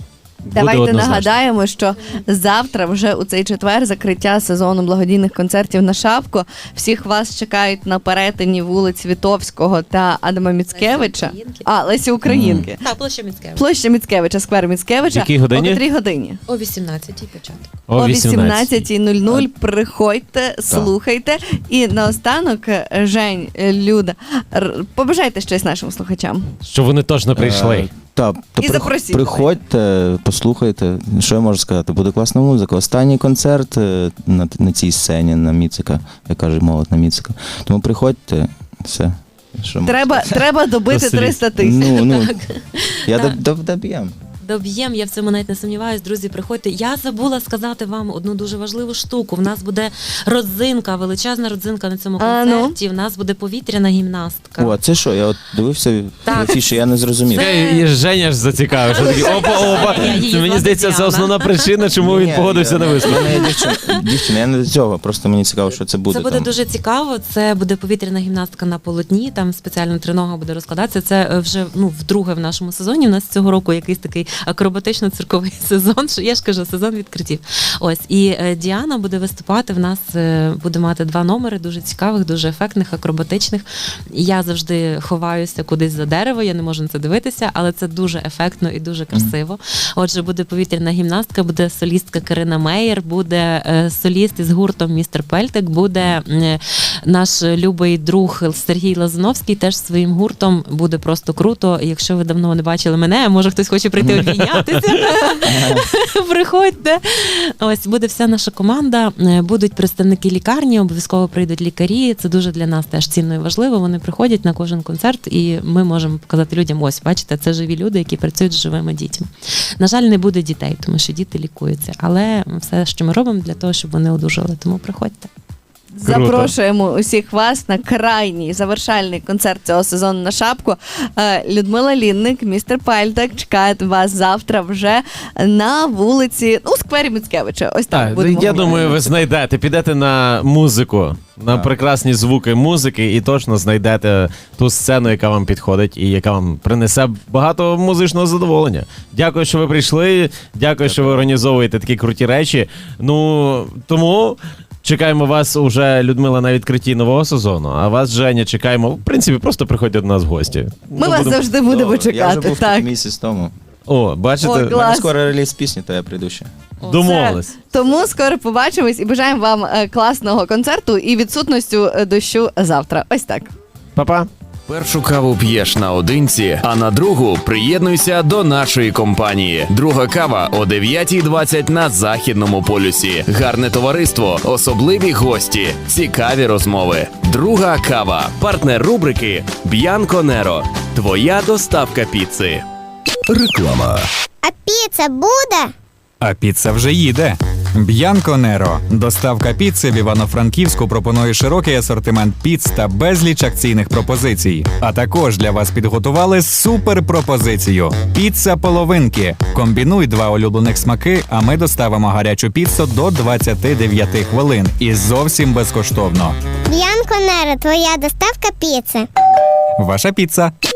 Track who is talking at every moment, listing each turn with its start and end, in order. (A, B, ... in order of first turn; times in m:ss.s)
0:00.5-0:01.4 A
0:00.6-0:12.8 B
0:10.7-0:11.7 C
0:12.3-0:12.7 D
0:12.8-0:13.7 C
0:13.6-0:16.4 B
0:15.0-0:15.8 A
0:16.5-0:17.7 C
0:17.9-0:18.9 A
0:18.0-0:26.5 B
0:26.7-0:27.9 A
0:27.4-0:40.5 D
0:28.6-0:29.5 B
0:39.8-0:42.0 B
0:40.9-0:41.4 A
0:41.6-0:42.4 D
0:41.8-0:43.4 C
0:43.1-0:44.2 D
0:44.4-0:54.8 C
0:52.2-0:52.8 B
0:54.6-0:57.5 D
0:56.2-0:56.6 C
0:57.3-0:57.8 C
0:57.4-1:03.4 A
0:58.9-1:01.7 C
0:59.6-1:00.0 D
1:02.0-1:06.5 D
1:03.4-1:04.0 C
1:06.1-1:59.3 C
1:45.4-1:45.9 D
1:59.8-2:05.3 C
2:06.0-2:19.2 B
2:06.0-2:06.5 A
2:17.9-2:41.5 A
2:30.8-2:31.3 D
2:41.0-2:42.9 B
2:41.7-2:43.6 D
2:43.9-2:44.8 A
2:44.4-2:45.1 B
2:44.7-2:46.5 D
2:46.8-2:47.5 A
2:46.9-2:53.5 B
2:54.0-2:54.3 A
2:54.7-3:12.6 E
3:13.3-3:14.0 E
3:14.4-3:15.7 F
3:16.2-3:36.4 G
3:36.7-3:39.1 F
3:39.8-3:40.5 G